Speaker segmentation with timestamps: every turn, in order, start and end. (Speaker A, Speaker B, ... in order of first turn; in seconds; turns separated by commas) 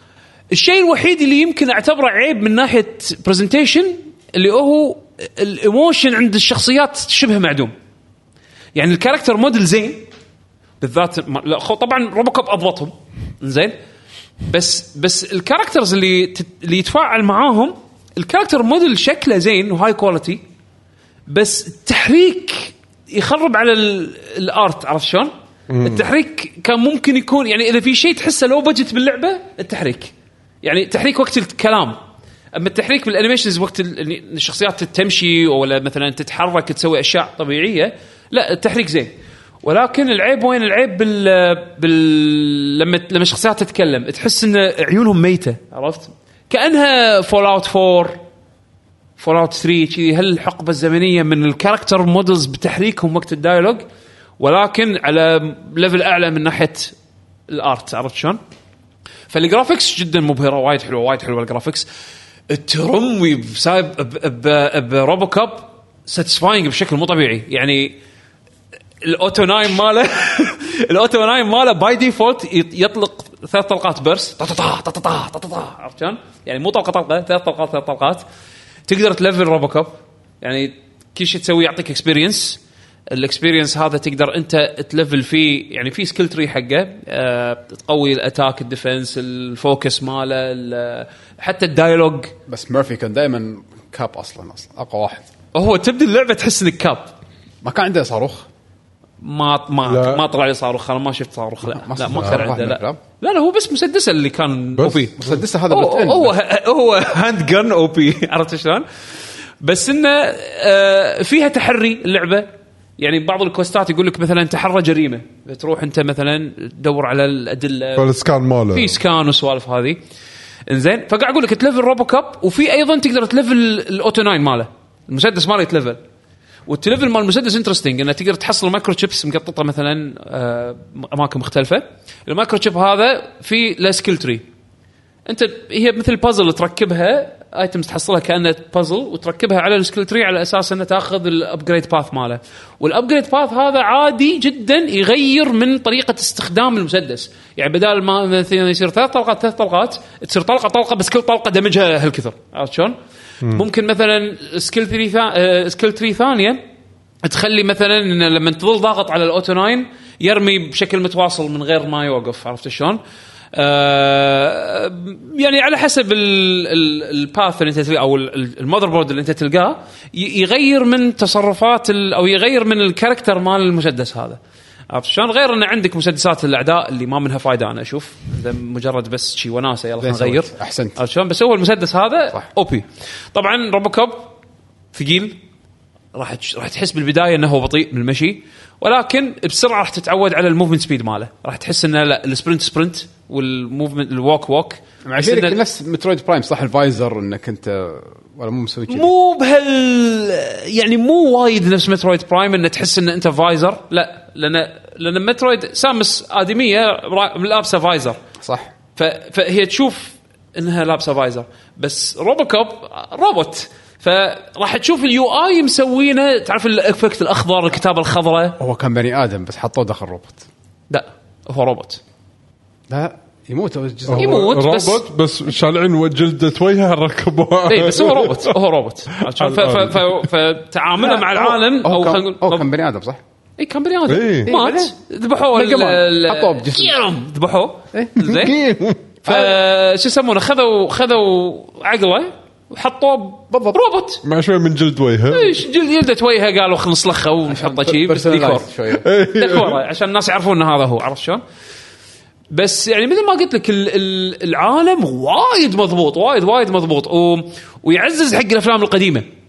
Speaker A: 0.5-7.7, Speaker A: 8.7-10.1, Speaker A: 10.8-13.8, Speaker A: 14.5-20.4, Speaker A: 21.3-25.3, Speaker B: 25.7-26.1, Speaker A: 25.8-32.0, Speaker A: 32.5-48.2, Speaker A: 49.2-53.8, Speaker A: 54.4-56.9, Speaker A: 57.5-58.4, Speaker A: 59.3-61.9, Speaker A: 62.5-68.0, Speaker A: 69.0-78.2, Speaker A: 78.9-92.3, Speaker C: 92.5-95.3, Speaker A: 95.5-97.1, Speaker C: 97.6-98.5, Speaker A: 99.2-108.9, Speaker B: 99.8-100.2, Speaker C: 101.6-103.0, Speaker B: 104.8-105.3, Speaker C: 105.2-106.3, Speaker A: 109.6-118.1, Speaker B: 118.0-119.0, Speaker A: 118.7-120.0, Speaker A: 120.7-126.0, Speaker A: 126.7-134.4, Speaker A: 135.3-156.6, Speaker A: 157.2-163.0, Speaker A: 163.5-174.4, Speaker A: 174.9-184.3, Speaker C: 180.0-181.0, Speaker A: 184.9-185.4, Speaker A: 186.1-195.6, Speaker C: 195.1-199.1, Speaker A: 198.9-208.2, Speaker C: 208.4-208.7, Speaker A: 209.0-218.6, Speaker C: 218.6-220.4, Speaker A: 220.9-222.0, Speaker C: 222.9-224.4, Speaker B: 224.1-228.6, Speaker A: 224.1-225.0, Speaker A: 227.7-232.7, Speaker B: 229.2-230.3, Speaker C: 231.0-233.2, Speaker A: 233.6-238.6, Speaker B: 234.1-234.5, Speaker C: 234.4-235.0, Speaker C: 235.5-236.9, Speaker C: 237.9-238.2, Speaker B: 238.2-239.0, Speaker C: 239.2-239.6, Speaker A: 239.2-244.2, Speaker B: 244.2-245.6, Speaker A: 245.3-248.7, Speaker C: 247.5-249.1, Speaker B: 248.9-249.8, Speaker A: 249.3-251.4, Speaker A: 252.5-259.3